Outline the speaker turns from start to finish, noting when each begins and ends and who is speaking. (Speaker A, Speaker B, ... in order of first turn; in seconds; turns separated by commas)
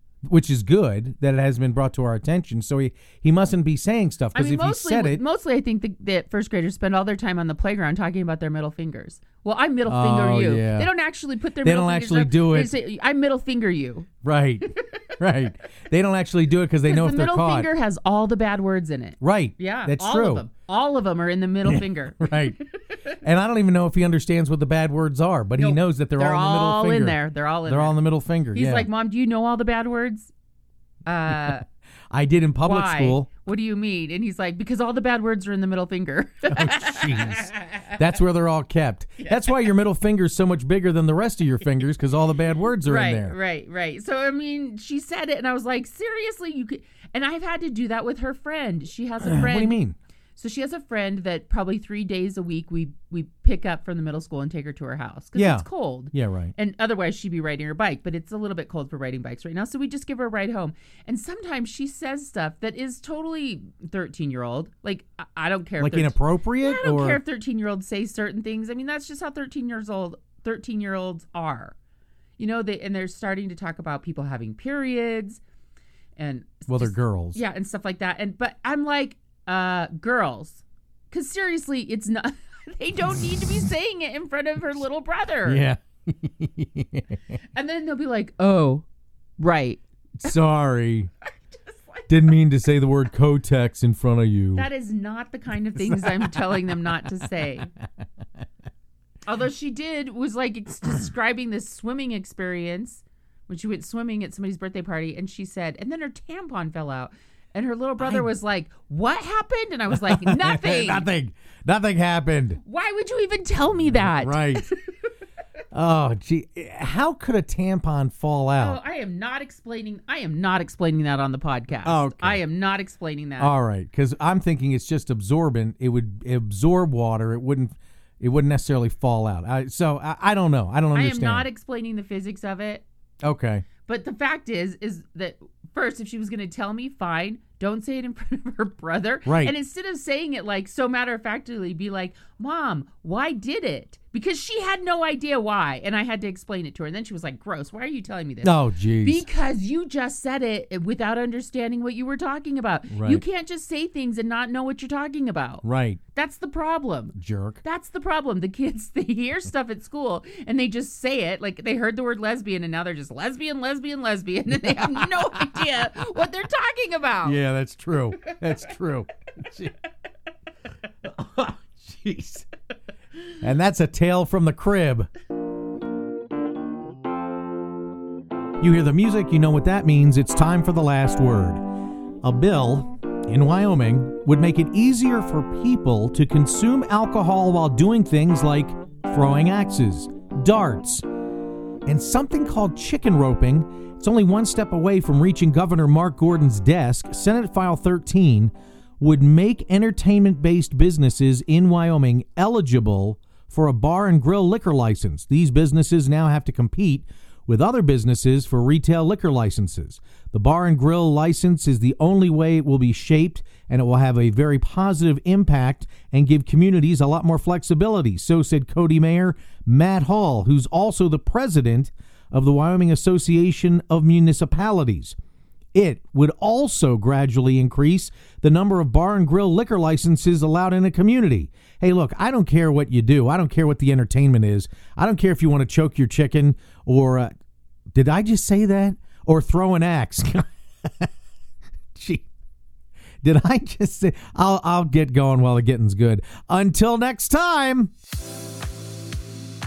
Speaker A: 0.3-5.2, Speaker B: 4.3-14.1, Speaker A: 9.9-10.9, Speaker A: 11.6-12.7, Speaker A: 14.2-17.7, Speaker B: 16.9-23.0, Speaker A: 19.2-20.4, Speaker A: 21.6-22.6, Speaker A: 23.2-28.9, Speaker B: 25.6-28.0, Speaker B: 28.5-30.3, Speaker B: 31.1-31.6, Speaker A: 32.1-33.3, Speaker B: 32.6-38.0, Speaker A: 36.5-43.4, Speaker B: 42.9-49.8, Speaker A: 49.2-50.0, Speaker B: 50.4-71.8, Speaker A: 55.4-56.5, Speaker A: 65.8-67.2, Speaker B: 72.4-75.4, Speaker B: 76.2-85.7, Speaker A: 76.7-77.4, Speaker A: 85.5-87.2, Speaker B: 87.5-88.8, Speaker B: 89.4-89.8, Speaker A: 90.2-91.1, Speaker A: 92.1-94.7, Speaker B: 94.5-97.7, Speaker A: 95.8-96.8, Speaker B: 99.3-111.1, Speaker A: 108.0-108.3, Speaker A: 109.9-112.6, Speaker B: 112.6-114.8, Speaker A: 113.9-114.7, Speaker A: 115.7-118.8, Speaker B: 118.6-123.5, Speaker A: 121.8-122.4, Speaker A: 123.4-131.5, Speaker B: 130.9-132.8, Speaker A: 133.2-133.7, Speaker B: 133.8-155.6, Speaker A: 139.3-139.6, Speaker A: 148.4-149.3, Speaker A: 152.9-153.2, Speaker A: 155.6-156.0, Speaker B: 156.2-167.4, Speaker A: 157.2-157.6, Speaker A: 167.2-169.7, Speaker A: 171.1-172.5, Speaker A: 173.4-175.1, Speaker A: 178.6-181.6, Speaker A: 182.2-191.0, Speaker A: 191.9-225.2, Speaker A: 225.7-237.3, Speaker A: 237.9-241.1, Speaker A: 241.9-242.3, Speaker A: 243.2-247.9